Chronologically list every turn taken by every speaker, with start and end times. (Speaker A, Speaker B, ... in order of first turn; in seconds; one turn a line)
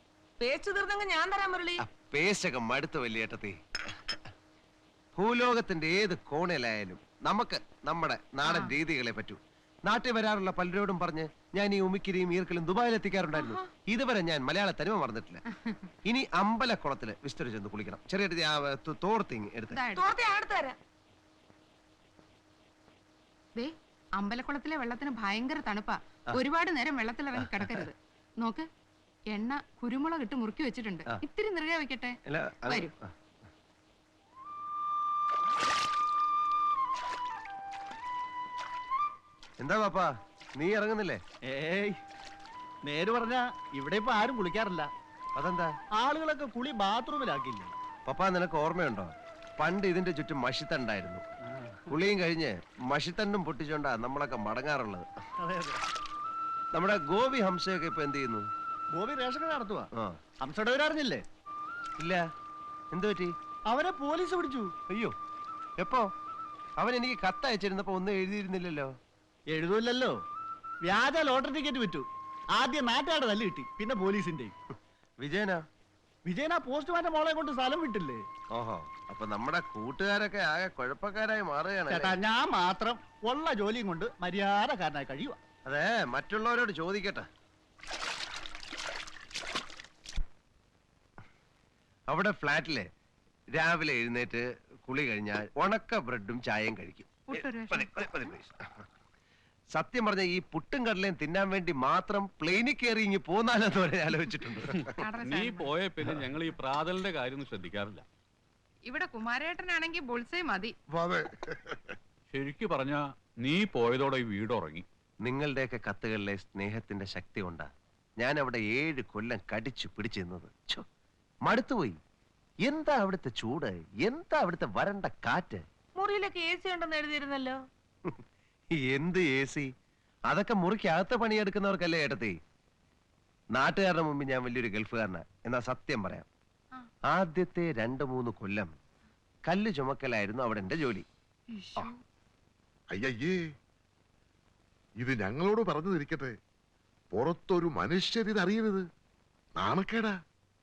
Speaker A: 0.4-1.8
Speaker B: 1.8-4.2
Speaker B: 5.2-15.4
Speaker A: 13.4-13.7
Speaker B: 16.0-19.8
Speaker C: 19.7-20.1
Speaker A: 19.9-20.8
Speaker C: 23.6-28.6
Speaker B: 27.4-27.8
Speaker C: 29.3-32.2
Speaker B: 32.3-33.1
Speaker B: 39.6-41.2
Speaker D: 41.4-42.0
Speaker D: 42.8-44.9
Speaker B: 45.4-45.7
Speaker D: 46.0-47.7
Speaker B: 48.0-51.2
Speaker B: 51.9-55.0
Speaker D: 55.4-55.8
Speaker B: 56.7-58.5
Speaker D: 58.9-59.9
Speaker D: 60.4-61.2
Speaker B: 62.9-63.3
Speaker D: 63.7-64.7
Speaker B: 65.8-66.0
Speaker B: 66.8-68.9
Speaker D: 69.5-70.1
Speaker D: 70.8-74.5
Speaker B: 75.2-75.6
Speaker D: 76.2-78.2
Speaker B: 78.5-82.2
Speaker D: 81.9-85.4
Speaker B: 85.7-87.3
Speaker B: 92.1-92.8
Speaker B: 93.5-98.7
Speaker C: 97.3-97.9
Speaker B: 99.8-105.0
Speaker C: 104.9-105.7
Speaker E: 105.2-108.0
Speaker C: 108.8-110.7
Speaker F: 110.9-111.9
Speaker E: 112.3-114.8
Speaker B: 115.2-117.7
Speaker B: 118.2-120.8
Speaker B: 121.5-122.0
Speaker B: 122.7-125.6
Speaker A: 126.0-127.6
Speaker B: 128.8-129.7
Speaker B: 130.3-132.3
Speaker B: 133.6-136.3
Speaker B: 137.1-138.7
Speaker B: 139.4-141.0
Speaker C: 141.5-142.0
Speaker F: 142.9-143.4
Speaker F: 145.0-146.3
Speaker F: 147.1-148.8
Speaker F: 149.6-150.1